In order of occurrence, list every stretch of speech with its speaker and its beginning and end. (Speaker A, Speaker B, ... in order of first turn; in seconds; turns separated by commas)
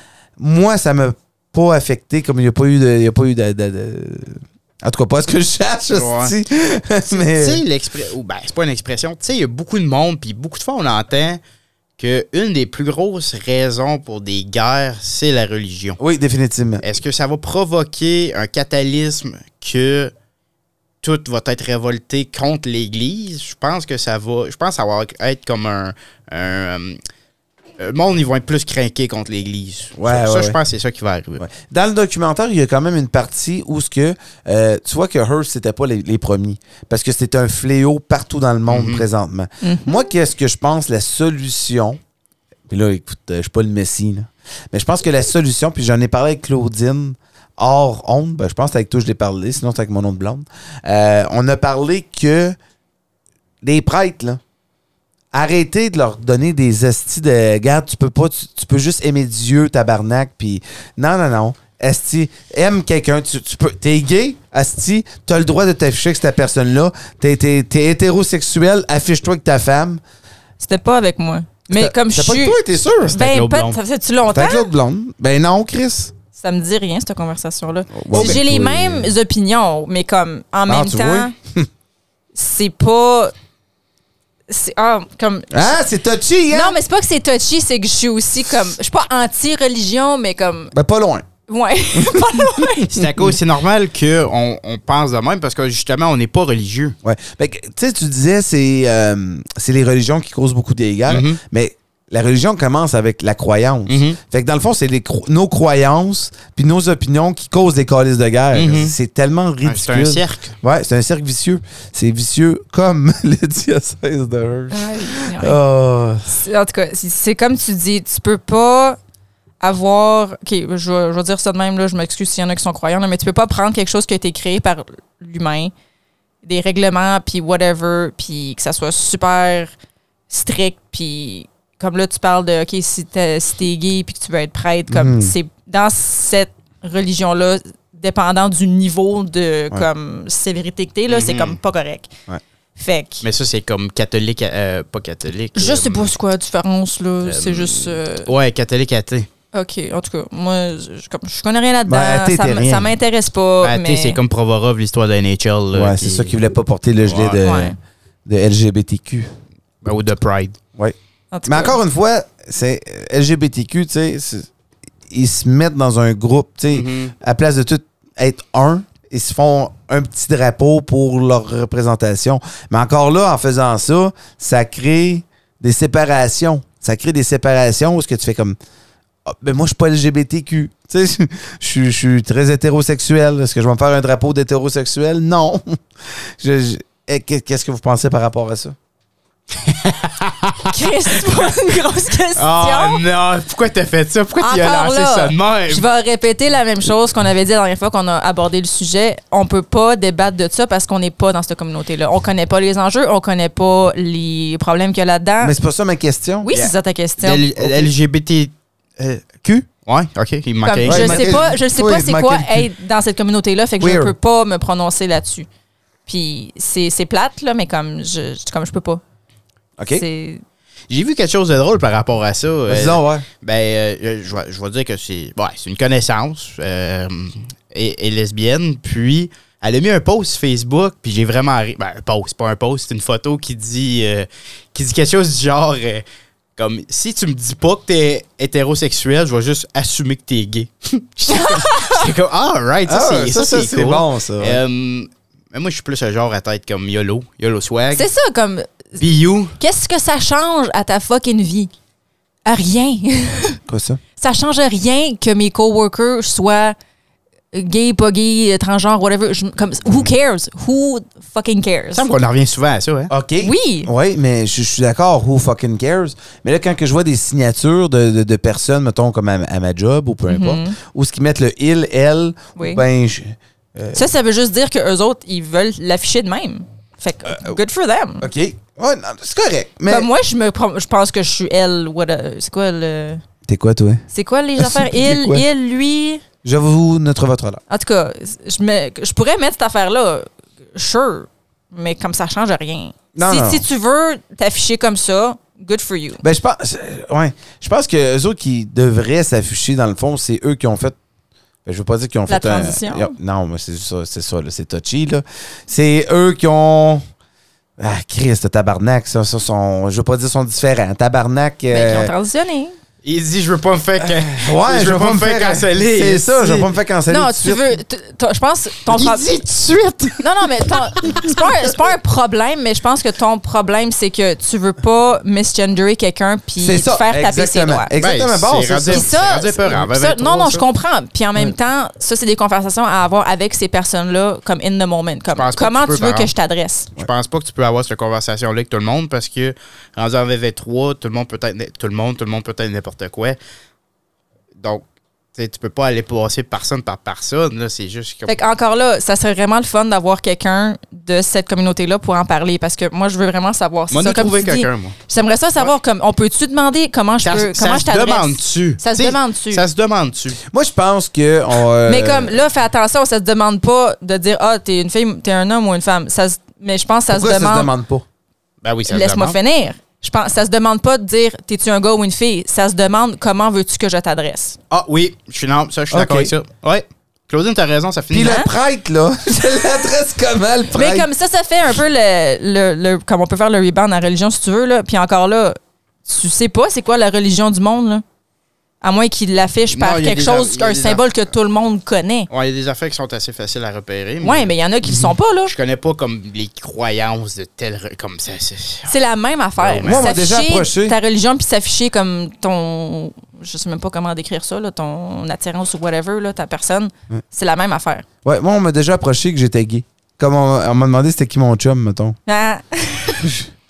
Speaker A: 0.4-7.6, Speaker B: 5.9-6.3, Speaker B: 7.1-11.4, Speaker B: 12.0-16.0, Speaker A: 16.0-16.8, Speaker B: 16.8-20.1, Speaker B: 21.0-27.0, Speaker B: 27.8-31.4, Speaker A: 30.0-30.6, Speaker A: 31.4-42.0, Speaker B: 38.7-39.0, Speaker C: 39.6-40.1, Speaker A: 42.7-52.5, Speaker A: 53.6-54.4, Speaker A: 55.3-70.0, Speaker C: 70.6-74.7, Speaker A: 71.7-73.2, Speaker B: 73.0-73.8, Speaker A: 74.3-76.1, Speaker C: 76.3-81.3, Speaker A: 78.0-79.1, Speaker A: 80.7-81.7, Speaker C: 82.3-83.3, Speaker C: 84.5-85.7, Speaker A: 85.5-86.8, Speaker C: 86.5-90.7, Speaker A: 90.7-91.2, Speaker C: 91.5-92.9, Speaker A: 91.9-93.3, Speaker B: 92.9-97.0, Speaker A: 97.0-116.3, Speaker B: 101.1-101.4, Speaker B: 103.9-104.2, Speaker B: 108.5-108.9, Speaker B: 109.6-110.5, Speaker C: 114.7-115.6, Speaker C: 116.3-119.0, Speaker C: 119.6-125.7, Speaker C: 126.4-129.7, Speaker C: 130.3-142.1, Speaker A: 134.9-135.3, Speaker B: 141.1-141.6, Speaker C: 142.8-143.2, Speaker B: 143.2-146.1, Speaker C: 145.5-148.3, Speaker B: 147.2-149.3, Speaker C: 149.5-154.2, Speaker A: 151.9-152.9, Speaker B: 153.6-156.3, Speaker A: 155.7-157.7, Speaker B: 157.0-157.4, Speaker C: 157.4-157.8, Speaker A: 158.2-159.3, Speaker B: 159.8-160.6, Speaker C: 161.3-161.8, Speaker A: 161.4-164.5, Speaker A: 165.1-178.6, Speaker B: 166.7-167.1, Speaker A: 179.2-185.8, Speaker A: 186.4-188.8, Speaker B: 189.6-190.7, Speaker C: 190.7-193.0, Speaker B: 192.3-195.8, Speaker C: 194.4-205.5, Speaker A: 205.4-206.5, Speaker C: 206.4-207.4, Speaker B: 206.5-211.3, Speaker A: 207.6-207.9, Speaker C: 210.6-215.5, Speaker A: 210.8-212.7, Speaker A: 213.8-214.1, Speaker C: 216.1-219.0, Speaker A: 219.8-220.0, Speaker C: 219.9-220.4, Speaker B: 220.9-236.0, Speaker A: 222.7-223.2, Speaker B: 236.6-248.0, Speaker C: 241.3-242.1, Speaker A: 242.9-244.6, Speaker C: 247.9-251.7, Speaker B: 249.0-249.5, Speaker C: 252.4-253.6, Speaker A: 253.7-254.0, Speaker C: 254.2-256.8, Speaker C: 257.5-262.1, Speaker B: 261.9-263.1, Speaker A: 263.1-274.0, Speaker C: 263.4-263.9, Speaker C: 270.3-270.8, Speaker C: 272.6-272.8, Speaker C: 273.9-278.3, Speaker A: 277.2-277.6, Speaker A: 278.2-280.1, Speaker C: 279.9-283.2, Speaker A: 283.4-284.0, Speaker C: 284.1-286.2, Speaker A: 284.6-285.4, Speaker A: 286.4-287.6, Speaker C: 287.7-296.2, Speaker A: 293.1-293.6, Speaker A: 296.2-301.0, Speaker A: 301.6-307.0, Speaker C: 302.3-303.1, Speaker A: 307.8-312.1, Speaker C: 311.7-312.8, Speaker B: 313.0-316.7, Speaker A: 314.1-317.6, Speaker C: 317.1-319.3, Speaker B: 318.9-321.1, Speaker C: 320.2-327.9, Speaker A: 326.6-329.1, Speaker B: 328.0-330.6, Speaker C: 328.9-336.9, Speaker B: 335.4-336.3, Speaker B: 337.0-343.4, Speaker B: 345.4-348.4, Speaker C: 348.3-359.6, Speaker B: 353.9-354.9, Speaker B: 357.2-360.4, Speaker A: 360.5-362.4, Speaker C: 361.8-367.7, Speaker A: 367.1-368.0, Speaker B: 368.6-369.4, Speaker C: 368.9-374.6, Speaker B: 374.7-378.5, Speaker A: 375.9-376.3, Speaker A: 378.1-381.1, Speaker C: 378.2-378.5, Speaker C: 380.7-388.0, Speaker C: 388.8-392.3, Speaker B: 389.7-391.0, Speaker B: 392.3-394.5, Speaker C: 394.2-395.5, Speaker B: 395.4-398.9, Speaker C: 398.9-408.0, Speaker B: 399.6-400.1, Speaker A: 399.8-400.9, Speaker A: 408.2-412.2, Speaker C: 412.3-413.3, Speaker A: 413.2-413.5